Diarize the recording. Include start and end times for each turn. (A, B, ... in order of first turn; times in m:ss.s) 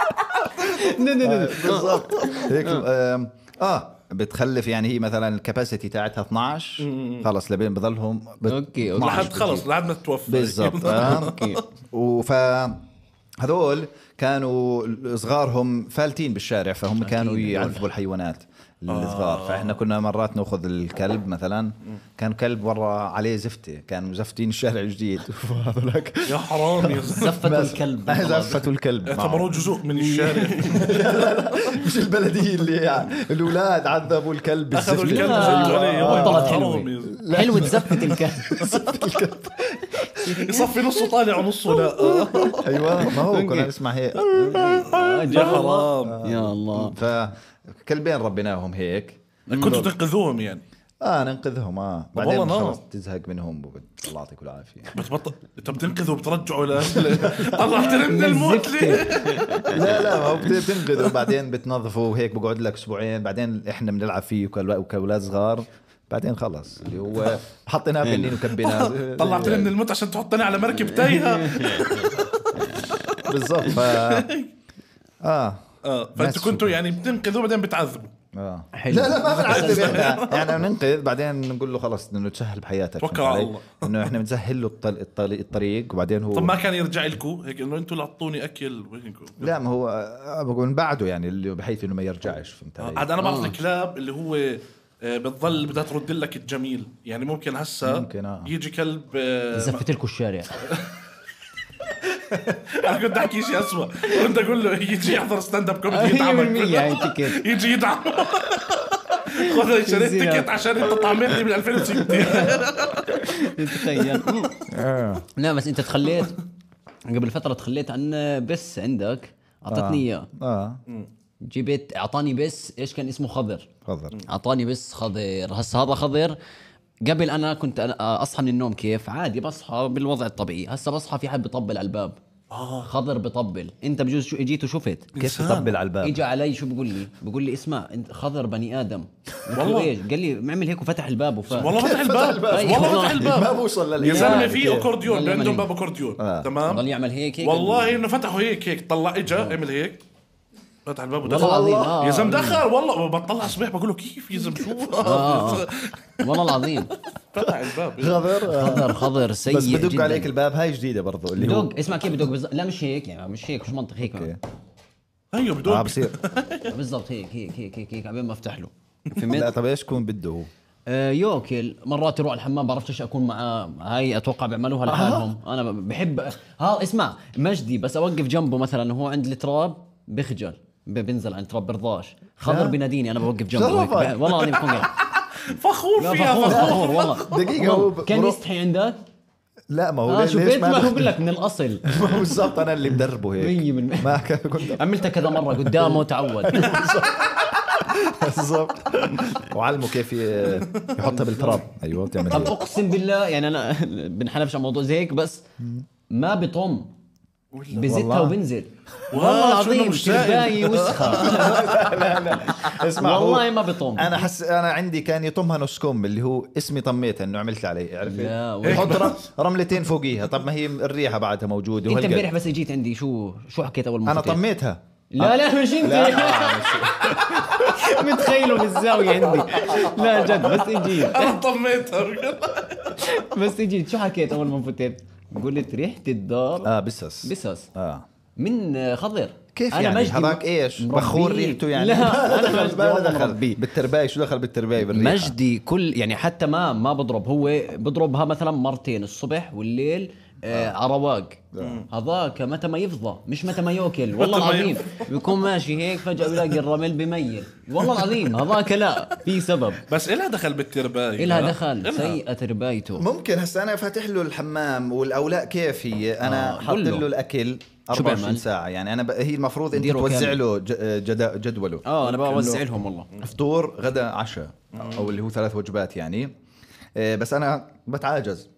0:00.4-0:02.8 A
0:01.2-0:09.7 B
0:06.8-0:07.3 C
0:08.4-0:09.4 A
0:09.0-0:11.6 C
0:10.3-0:11.3 B
0:10.8-0:11.6 A
0:11.9-0:12.8 B
0:13.4-0:29.7 B
0:17.0-0:17.8 A
0:18.9-0:19.8 C
0:26.3-0:27.3 C
0:27.1-0:28.6 A
0:29.1-0:31.1 C
0:29.9-0:30.9 A
0:30.7-0:40.7 B
0:34.7-0:37.2 C
0:35.0-0:38.6 A
0:38.6-0:38.9 C
0:40.1-0:40.8 A
0:40.3-0:43.0 C
0:42.0-0:47.0 A
0:42.6-0:49.9 B
0:44.9-0:46.2 C
0:49.5-0:49.8 A
0:49.5-0:50.6 C
0:51.0-0:55.0 B
0:52.2-0:52.8 C
0:54.9-0:59.6 C
0:56.9-0:57.8 B
0:57.8-0:59.8 A
0:59.7-1:09.7 B
1:08.0-1:08.4 A
1:08.5-1:14.5 C
1:10.9-1:13.1 A
1:13.2-1:14.3 B
1:15.2-1:15.6 B
1:15.8-1:18.1 C
1:16.1-1:16.8 B
1:18.3-1:26.6 B
1:18.7-1:20.2 A
1:19.4-1:20.6 C
1:23.0-1:24.1 C
1:26.3-1:29.6 C
1:29.4-1:33.1 B
1:32.8-1:39.8 C
1:33.2-1:33.6 A
1:37.8-1:38.5 B
1:39.5-1:40.6 A
1:42.2-1:42.8 B
1:42.7-1:54.5 C
1:45.9-1:47.4 A
1:49.2-1:50.5 A
1:51.9-1:54.5 A
1:54.7-1:55.2 B
1:55.4-1:56.4 A
1:57.0-2:00.3 A
1:59.7-2:00.8 B
2:01.4-2:03.7 A
2:03.8-2:04.2 B
2:04.2-2:06.4 A
2:07.0-2:12.2 A
2:12.5-2:12.9 C
2:12.8-2:15.1 A
2:15.1-2:15.7 C
2:15.2-2:16.2 B
2:16.0-2:21.8 A
2:19.5-2:19.9 C
2:21.5-2:26.9 C
2:21.7-2:24.9 B
2:22.5-2:23.4 A
2:24.0-2:25.7 A
2:26.2-2:26.5 B
2:26.6-2:28.0 A
2:27.4-2:30.0 C
2:30.8-2:36.7 C
2:31.2-2:32.6 A
2:31.3-2:32.0 B
2:35.0-2:35.7 A
2:36.2-2:36.9 A
2:37.3-2:38.4 C
2:37.4-2:41.7 B
2:38.4-2:40.3 A
2:41.4-2:44.3 A
2:44.0-2:44.4 B
2:45.3-2:46.7 C
2:45.6-2:46.2 B
2:46.7-2:49.5 A
2:49.2-2:50.5 B
2:50.9-3:04.9 A
2:54.8-2:55.3 B
3:02.4-3:02.8 B
3:03.5-3:04.5 B
3:04.5-3:07.5 C
3:06.0-3:09.0 A
3:06.5-3:08.4 B
3:09.7-3:11.2 B
3:10.1-3:12.0 A
3:11.8-3:14.8 B
3:13.4-3:16.8 A
3:15.5-3:22.6 B
3:20.4-3:21.0 C
3:21.1-3:21.6 A
3:22.3-3:25.4 A
3:25.6-3:25.8 B
3:26.1-3:26.9 A
3:27.5-3:27.9 C
3:27.7-3:31.8 A
3:27.8-3:28.4 B
3:29.1-3:31.7 C
3:30.9-3:42.3 B
3:32.5-3:34.2 A
3:38.0-3:39.1 A
3:38.6-3:39.2 C
3:41.8-3:44.4 A
3:44.0-3:47.9 B
3:45.1-3:51.4 A
3:50.1-3:53.2 C
3:52.9-3:56.7 A
3:56.6-3:58.0 B
3:57.2-3:57.7 A
3:58.4-4:03.6 A
3:59.5-4:05.3 B
4:04.8-4:19.8 A
4:10.5-4:10.7 B
4:11.5-4:11.8 B
4:11.6-4:11.9 C
4:14.1-4:15.3 C
4:19.9-4:22.2 C
4:21.2-4:23.1 A
4:23.0-4:32.6 B
4:26.2-4:27.1 A
4:27.9-4:28.4 A
4:29.7-4:30.4 A
4:31.8-4:33.1 A
4:32.0-4:32.5 C
4:33.2-4:36.3 B
4:34.7-4:35.1 C
4:37.0-4:38.5 B